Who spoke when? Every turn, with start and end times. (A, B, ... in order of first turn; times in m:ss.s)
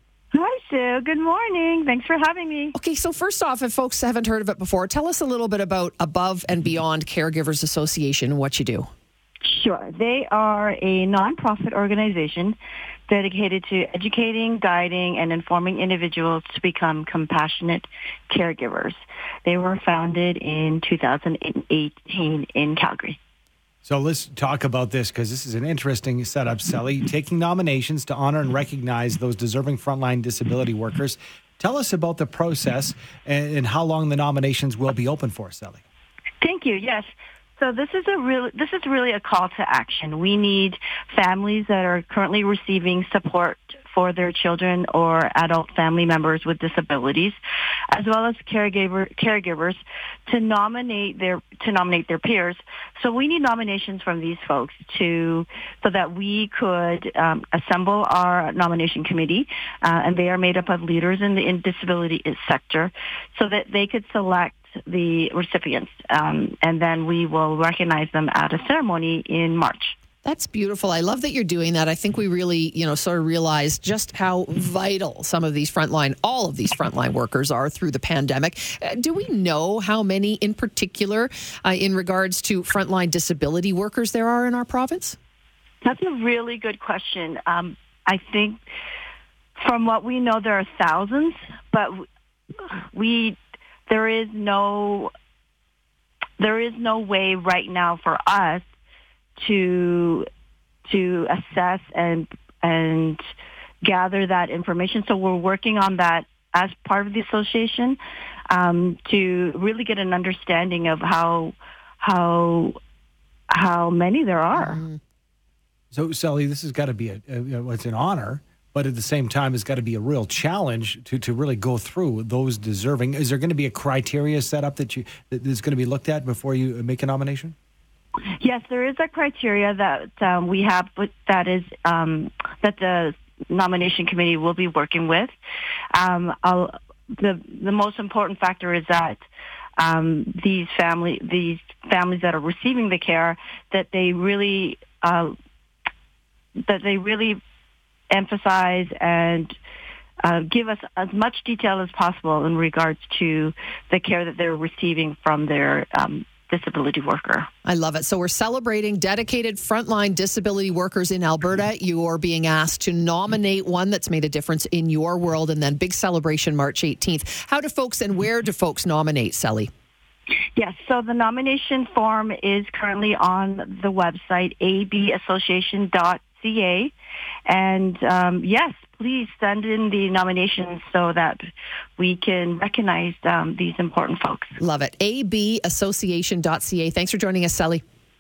0:00.3-0:02.8 A
0:02.8-0:08.9 B
0:09.4-0:12.6 A
0:13.1-0:23.2 A
0:23.8-0:35.8 C
0:36.4-0:37.1 A
0:37.6-0:47.4 A
0:47.9-1:10.0 A
1:10.2-1:25.2 B
1:25.8-1:28.6 A
1:29.6-1:32.1 A
1:32.6-1:35.1 A
1:36.4-1:38.6 A
1:39.4-1:40.3 A
1:40.9-1:43.2 A
1:43.8-1:48.0 A
1:48.5-1:52.8 A
1:53.5-1:54.8 A
1:54.5-1:55.0 B
1:55.9-2:07.6 C
2:08.4-2:15.3 A
2:15.9-2:19.2 A
2:19.8-2:25.3 A
2:26.6-2:27.4 A
2:28.1-2:29.6 A
2:30.2-2:37.5 A
2:37.6-2:49.7 B
2:50.6-2:56.9 A
2:57.5-3:01.5 A
3:02.0-3:04.6 A
3:04.6-3:07.8 B